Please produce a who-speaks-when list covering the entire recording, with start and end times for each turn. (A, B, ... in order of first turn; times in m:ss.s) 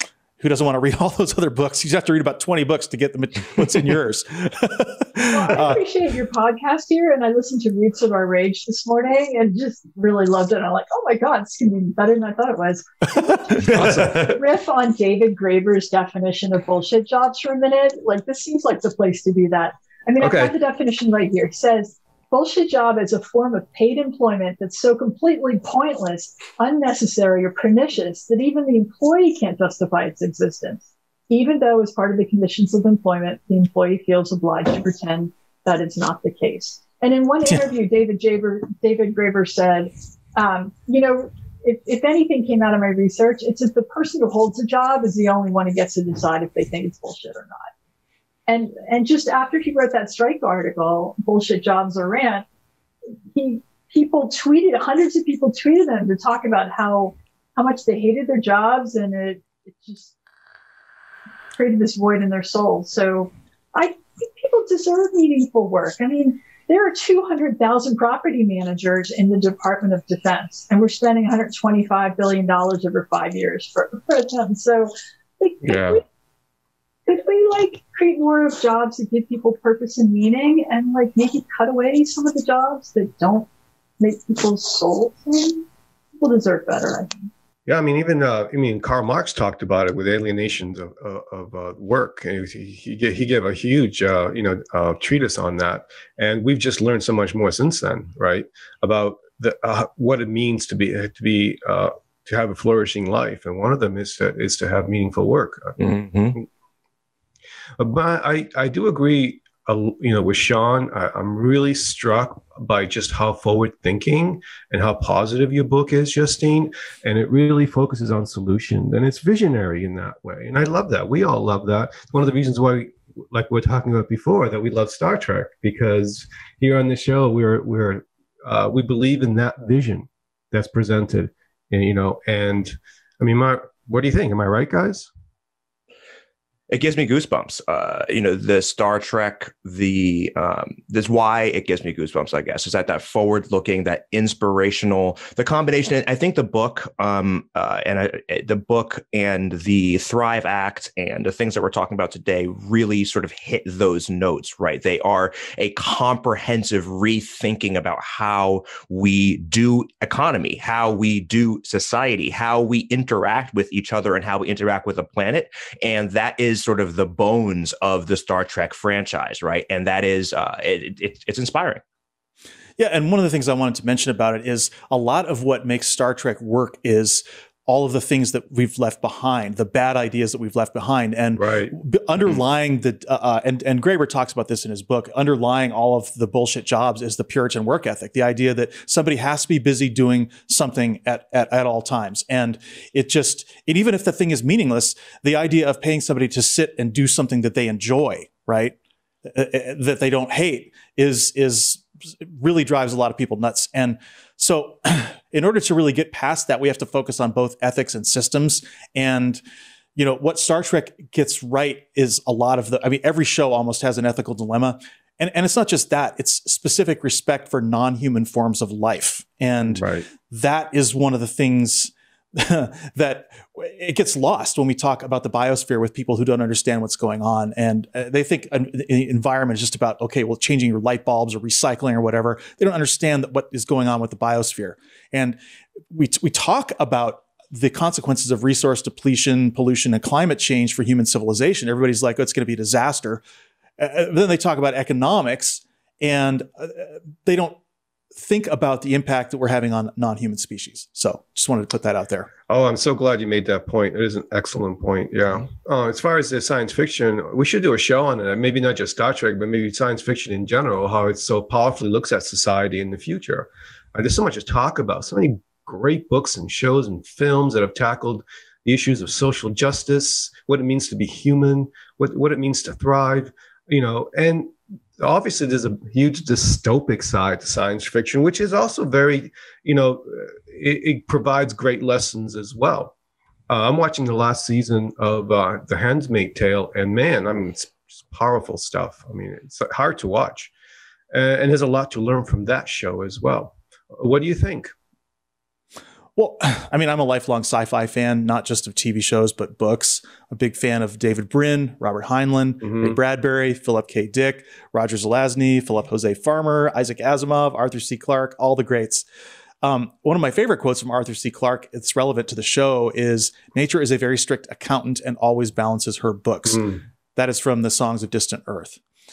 0:00.4-0:05.8 A
0:05.2-0:47.7 B
0:13.8-0:14.0 C
0:20.2-0:20.5 D
0:48.5-0:52.4 B
0:53.3-1:00.1 B
1:01.6-1:16.0 B
1:15.6-1:16.0 D
1:17.1-1:23.5 B
1:24.0-1:25.6 B
1:26.2-1:27.3 B
1:27.6-1:46.4 D
1:45.8-1:46.4 C
1:47.8-2:15.1 D
2:16.7-2:51.8 C
2:52.8-3:29.4 A
3:01.4-3:01.7 D
3:30.0-3:55.4 A
3:39.7-3:40.1 D
3:55.9-4:03.2 A
4:03.8-4:07.6 A
4:08.2-4:12.3 A
4:12.5-4:42.9 D
4:43.5-4:50.5 D
4:51.1-4:54.7 D
4:56.2-5:09.0 A
5:02.6-5:03.0 D
5:09.6-5:16.6 A
5:16.5-5:16.8 D
5:17.2-5:18.8 A